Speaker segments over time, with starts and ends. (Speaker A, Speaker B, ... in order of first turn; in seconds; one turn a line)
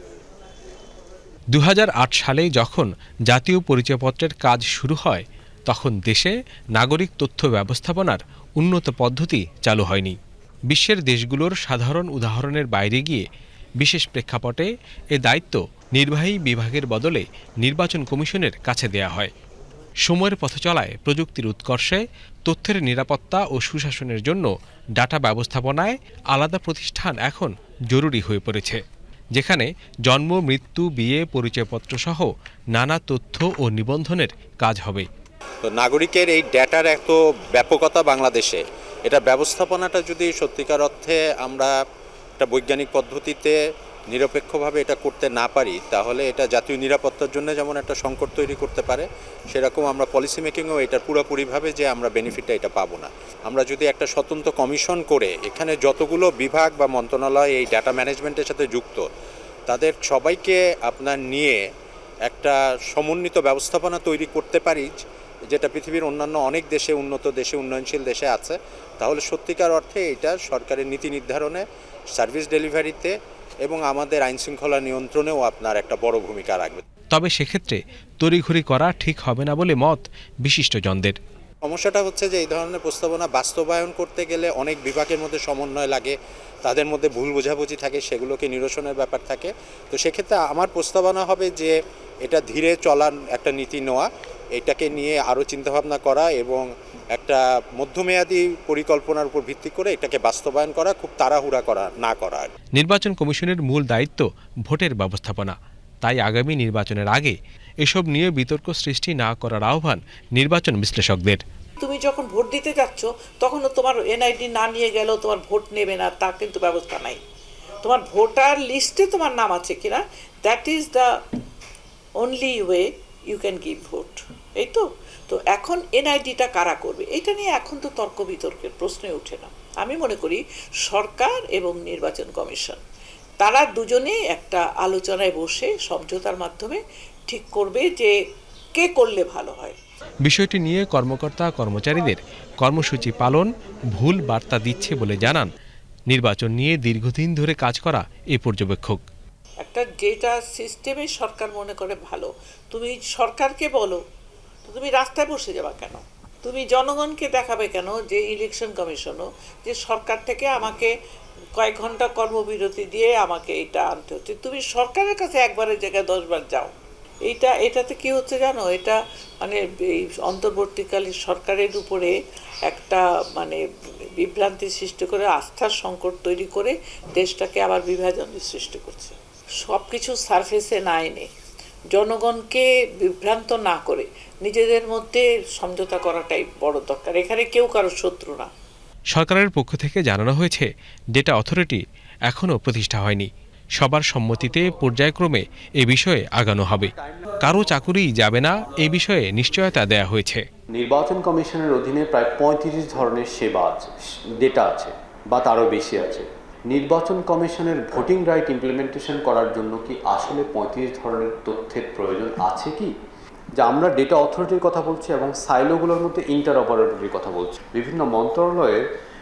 Speaker A: 1.5-10.2
Speaker A: 10.7-13.2
Speaker A: 13.8-19.3
Speaker A: 20.0-28.8
Speaker A: 29.4-35.1
Speaker B: 35.6-41.7
Speaker B: 42.4-43.5
Speaker B: 44.1-59.0
Speaker B: 59.7-61.6
Speaker B: 62.3-64.9
Speaker B: 65.5-71.6
Speaker B: 72.1-73.1
Speaker B: 73.6-76.8
Speaker A: 77.1-81.2
Speaker B: 81.6-102.5
Speaker A: 102.8-111.4
Speaker C: 111.8-117.2
Speaker C: 117.8-121.1
Speaker C: 122.2-132.8
Speaker C: 133.4-138.1
Speaker C: 138.8-139.8
Speaker A: 140.2-145.5
Speaker A: 146.1-149.0
Speaker C: 149.6-154.0
Speaker C: 154.7-160.9
Speaker C: 161.6-166.7
Speaker C: 167.3-172.1
Speaker C: 172.7-173.6
Speaker C: 174.2-181.3
Speaker C: 181.9-188.5
Speaker A: 189.1-196.9
Speaker A: 197.4-200.4
Speaker D: 200.7-212.9
Speaker D: 213.6-218.8